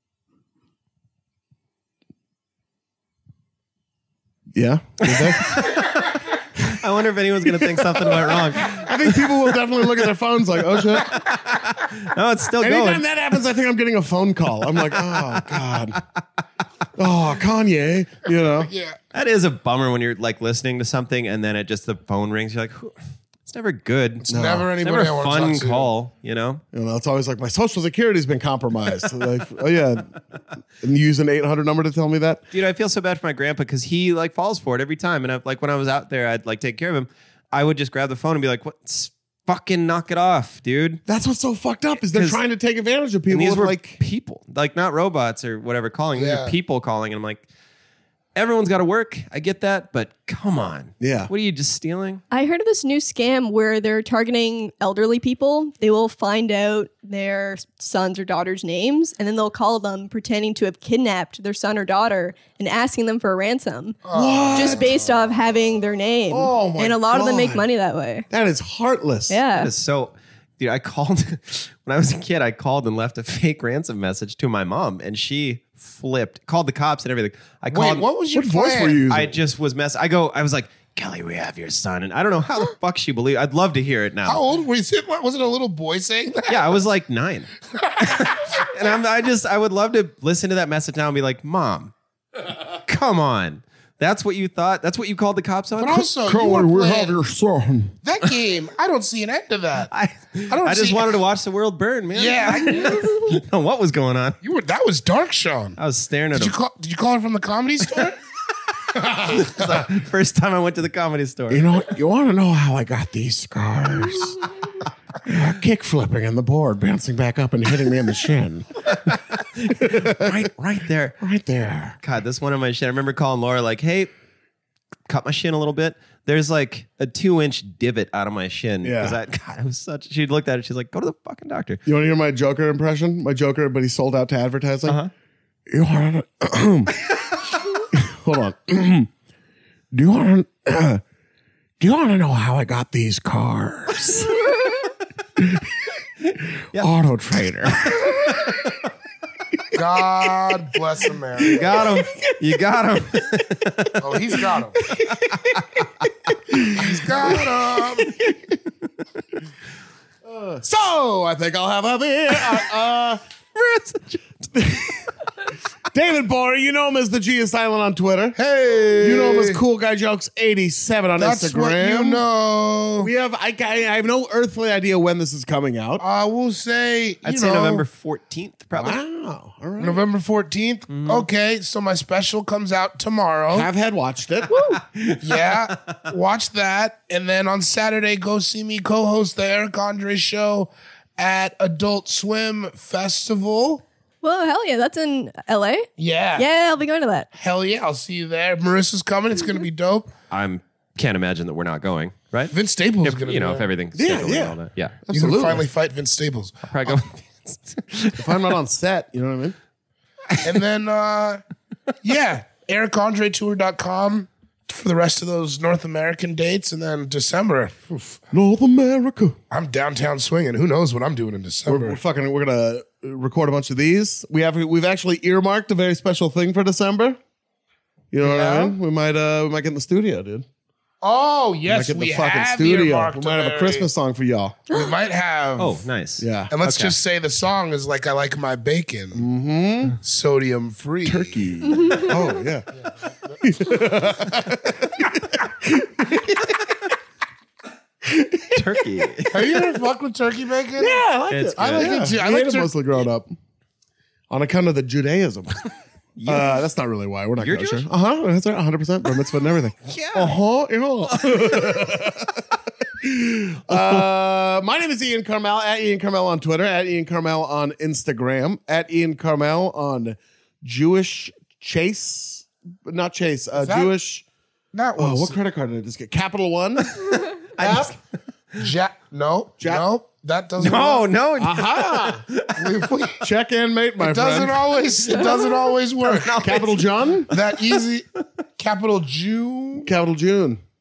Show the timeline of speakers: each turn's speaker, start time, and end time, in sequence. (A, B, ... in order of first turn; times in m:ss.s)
0:04.5-0:05.6 A
0:05.0-0:10.1 B
0:07.5-0:11.2 A
0:10.7-0:13.0 B
0:12.6-0:16.0 A
0:14.8-0:16.0 B
0:17.0-0:18.7 A
0:18.6-0:19.0 C
0:19.1-0:22.9 B
0:23.4-0:26.6 B
0:24.3-0:24.7 A
0:24.3-0:25.9 C
0:26.7-0:30.1 A
0:30.8-0:32.4 A
0:32.5-0:41.0 B
0:41.1-0:44.0 A
0:42.1-0:42.4 B
0:43.3-0:47.4 B
0:46.2-0:46.5 C
0:48.3-0:52.2 B
0:51.0-0:51.3 A
0:52.3-1:04.0 D
1:04.0-1:05.0 C
1:04.1-1:05.0 A
1:04.5-1:08.3 D
1:06.3-1:07.7 A
1:08.3-1:09.4 A
1:09.3-1:09.7 D
1:09.6-1:18.0 B
1:17.7-1:19.0 C
1:18.3-1:19.4 A
1:19.1-1:24.4 B
1:24.2-1:26.6 C
1:26.5-1:27.5 B
1:27.8-1:28.5 C
1:28.0-1:31.9 B
1:32.8-1:36.0 B
1:35.8-1:37.2 C
1:36.2-1:38.0 A
1:38.0-1:39.9 C
1:39.9-1:44.4 B
1:40.5-1:41.1 C
1:42.1-1:43.2 C
1:44.4-1:45.8 C
1:45.8-1:46.6 B
1:46.3-1:48.2 C
1:49.0-1:51.6 B
1:51.5-1:54.4 A
1:55.2-1:58.8 A
1:58.9-2:01.2 B
1:59.8-2:00.5 A
2:01.2-2:02.0 A
2:02.0-2:04.1 B
2:05.1-2:11.8 B
2:08.8-2:09.2 A
2:11.8-2:15.0 A
2:14.8-2:15.1 B
2:15.7-2:17.2 A
2:17.9-2:19.1 A
2:19.9-2:21.0 A
2:21.8-2:24.5 A
2:25.4-2:25.9 A
2:26.6-2:28.5 A
2:27.8-2:28.8 B
2:29.7-2:31.8 C
2:29.8-2:30.7 A
2:31.3-2:32.6 A
2:31.5-2:34.0 B
2:34.0-2:34.8 C
2:34.5-2:35.8 A
2:35.3-2:35.8 B
2:36.5-2:37.7 A
2:36.7-2:38.1 C
2:40.2-2:43.2 A
2:43.6-2:44.3 B
2:44.5-2:45.1 A
2:45.9-2:48.4 A
2:48.4-2:49.6 C
2:49.0-2:52.2 A
2:51.2-2:53.1 C
2:53.0-2:56.0 A
2:56.0-2:57.8 C
2:57.2-2:59.0 B
2:58.7-3:00.0 A
2:59.8-3:03.7 C
3:00.9-3:01.2 B
3:03.5-3:04.5 A
3:04.5-3:04.8 D
3:04.7-3:05.9 B
3:05.2-3:13.8 C
3:14.2-3:17.3 D
3:16.0-3:16.5 C
3:17.3-3:20.1 C
3:20.3-3:25.0 B
3:22.5-3:23.6 C
3:23.9-3:25.6 A
3:25.1-3:27.0 C
3:26.7-3:28.4 B
3:28.2-3:29.6 A
3:30.4-3:31.4 C
3:32.0-3:38.2 C
3:38.3-3:39.4 A
3:39.5-3:42.0 C
3:41.6-3:47.2 A
3:48.1-3:50.4 A
3:48.2-3:48.7 C
3:51.0-3:53.9 C
3:51.7-3:54.7 A
3:54.7-3:55.8 C
3:55.6-3:57.0 B
3:56.2-3:56.5 A
3:56.5-3:59.2 C
3:59.1-4:00.0 A
4:00.0-4:01.4 C
4:01.0-4:02.7 A
4:01.8-4:02.1 D
4:02.8-4:03.4 C
4:03.4-4:06.6 A
4:08.0-4:09.0 A
4:08.5-4:09.6 B
4:09.3-4:11.0 C
4:10.8-4:13.3 A
4:11.3-4:12.0 B
4:11.6-4:12.7 C
4:14.3-4:15.6 A
4:16.2-4:16.6 B
4:16.2-4:34.2 A
4:17.4-4:17.9 B
4:19.8-4:20.4 B
4:21.1-4:22.1 B
4:33.6-4:33.9 C
4:34.7-4:35.4 C
4:35.0-4:38.0 A
4:37.5-4:38.0 B
4:38.6-4:41.1 C
4:39.6-4:39.8 A
4:40.6-4:42.9 B
4:41.4-4:42.2 A
4:42.6-4:43.2 C
4:43.2-4:44.7 A
4:44.0-4:46.4 C
4:46.0-4:47.8 B
4:46.4-4:47.3 A
4:47.3-4:48.1 C
4:48.6-4:49.9 C
4:49.8-4:50.6 A